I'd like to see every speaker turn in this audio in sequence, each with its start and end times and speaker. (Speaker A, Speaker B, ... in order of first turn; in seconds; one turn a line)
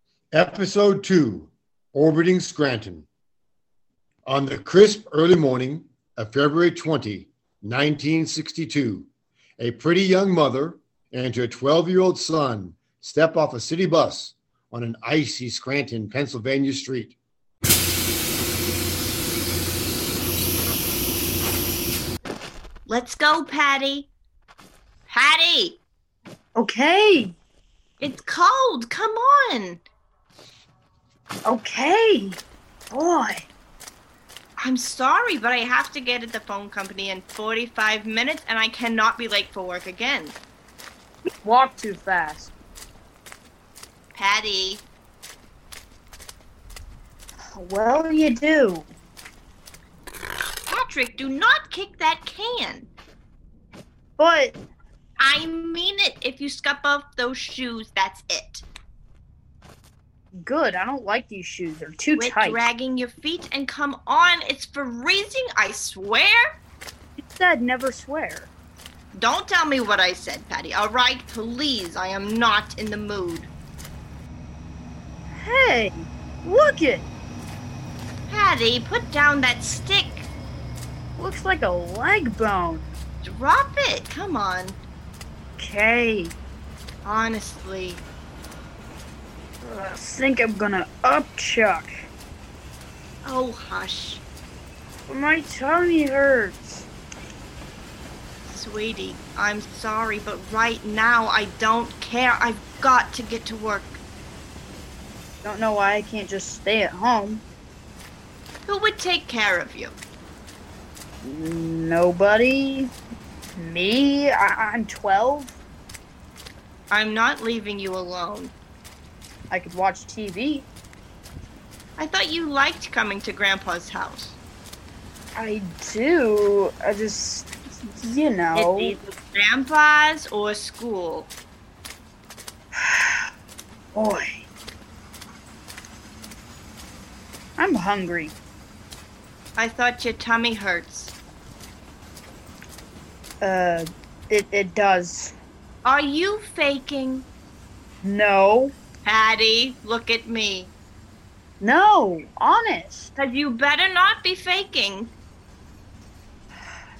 Speaker A: 0.3-3.1
Speaker A: 4.2-9.1
Speaker A: 9.6-17.1
Speaker B: 22.9-24.1
Speaker B: 25.1-25.8
Speaker C: 26.6-27.3
Speaker B: 28.0-29.8
Speaker C: 31.4-32.4
Speaker C: 32.9-33.5
Speaker B: 34.6-40.4
Speaker C: 41.4-42.5
Speaker B: 44.1-44.8
Speaker C: 47.5-48.9
Speaker B: 50.7-52.9
Speaker C: 54.2-54.6
Speaker B: 55.2-58.6
Speaker C: 60.4-62.6
Speaker B: 62.1-66.4
Speaker C: 67.2-68.5
Speaker B: 69.1-73.5
Speaker C: 75.3-77.1
Speaker B: 78.3-80.3
Speaker C: 81.2-83.0
Speaker B: 83.2-84.8
Speaker C: 85.6-86.3
Speaker B: 87.0-88.0
Speaker C: 89.6-91.9
Speaker B: 93.2-94.2
Speaker C: 95.1-96.9
Speaker B: 98.4-104.0
Speaker C: 105.4-107.4
Speaker B: 108.7-110.0
Speaker C: 111.2-112.9
Speaker C: 113.5-115.5
Speaker B: 116.9-118.5
Speaker C: 119.5-120.7
Speaker B: 122.0-124.4
Speaker C: 125.3-128.9
Speaker B: 128.5-131.3
Speaker C: 132.8-133.3
Speaker C: 133.9-134.4
Speaker C: 137.6-138.3
Speaker B: 139.6-141.1
Speaker C: 143.4-145.3
Speaker B: 145.8-147.3
Speaker C: 148.0-148.7
Speaker B: 149.0-150.7
Speaker C: 151.6-153.1
Speaker B: 153.2-155.1